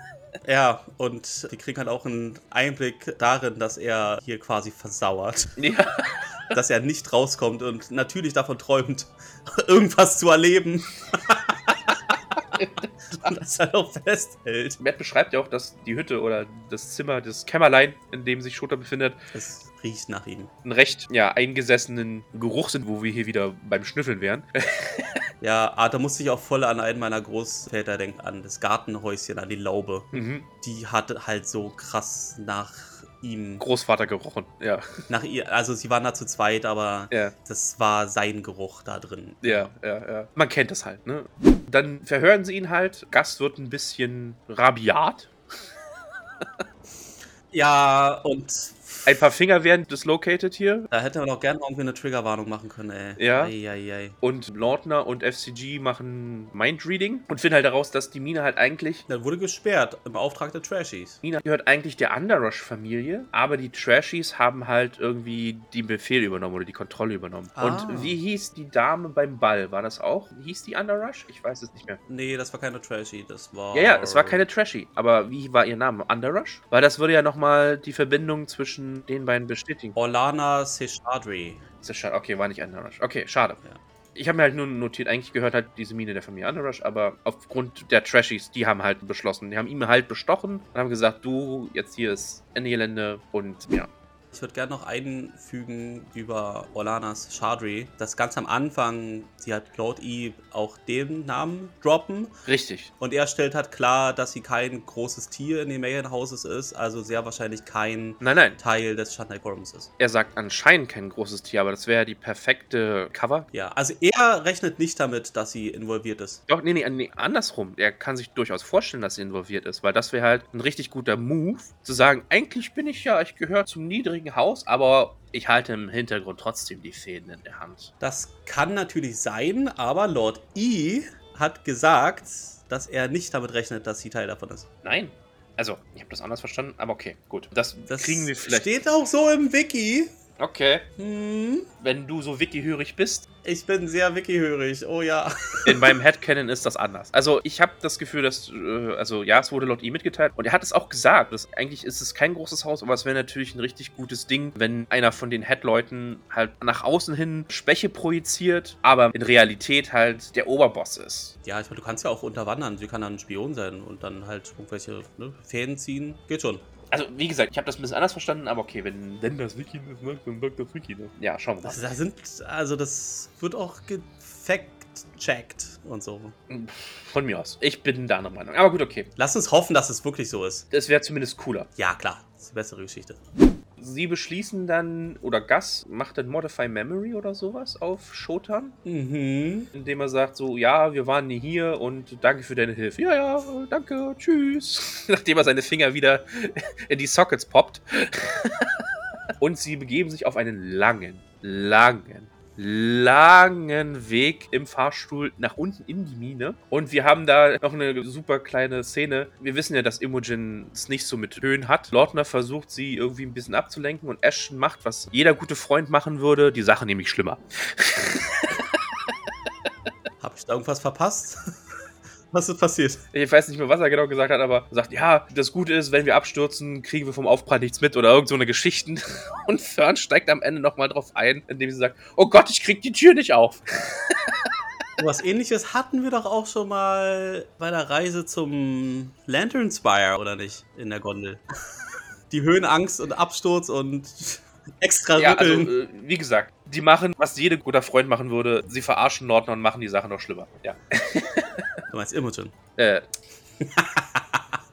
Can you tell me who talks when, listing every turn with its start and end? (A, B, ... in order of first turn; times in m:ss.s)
0:00.4-0:05.6 A
0:05.6-0:06.2 B
0:06.5-0:11.9 A
0:13.1-0:14.8 A
0:14.8-0:19.2 B
0:19.3-0:20.5 A
0:20.6-0:25.2 B
0:25.4-0:33.6 A
0:30.1-0:30.5 B
0:33.6-0:35.1 B
0:35.1-0:39.7 A
0:39.4-0:45.3 B
0:47.5-0:49.2 A
0:49.1-0:50.9 B
0:50.9-0:54.2 A
0:53.2-0:53.5 B
0:54.2-0:59.0 B
0:59.1-1:01.2 A
1:01.2-1:12.0 B
1:07.6-1:08.2 A
1:12.1-1:14.4 A
1:13.7-1:20.0 B
1:20.0-1:21.6 A
1:21.8-1:23.6 B
1:24.2-1:33.9 B
1:34.3-1:42.4 A
1:42.5-1:42.9 B
1:43.0-1:49.9 A
1:48.2-1:48.6 B
1:50.0-1:53.5 B
1:53.5-1:56.4 A
1:56.5-2:07.9 B
2:08.0-2:14.7 A
2:14.8-2:18.7 B
2:17.9-2:20.1 A
2:20.4-2:20.9 B
2:21.0-2:21.7 A
2:21.8-2:23.3 B
2:23.4-2:26.0 A
2:25.6-2:41.4 B
2:41.4-2:46.6 A
2:46.9-2:51.8 B
2:51.6-2:56.4 A
2:56.5-2:59.1 B
2:59.2-3:00.6 A
3:00.7-3:01.7 B
3:01.8-3:03.2 A
3:03.8-3:08.8 B
3:08.8-3:09.7 A
3:09.7-3:18.8 B
3:19.4-3:38.8 B
3:40.2-3:41.5 A
3:42.3-3:43.0 A
3:43.1-3:54.5 B
3:55.0-4:01.4 A
4:02.3-4:05.7 A
4:05.2-4:11.7 B
4:11.9-4:12.5 A
4:12.8-4:13.0 B
4:13.6-4:14.4 A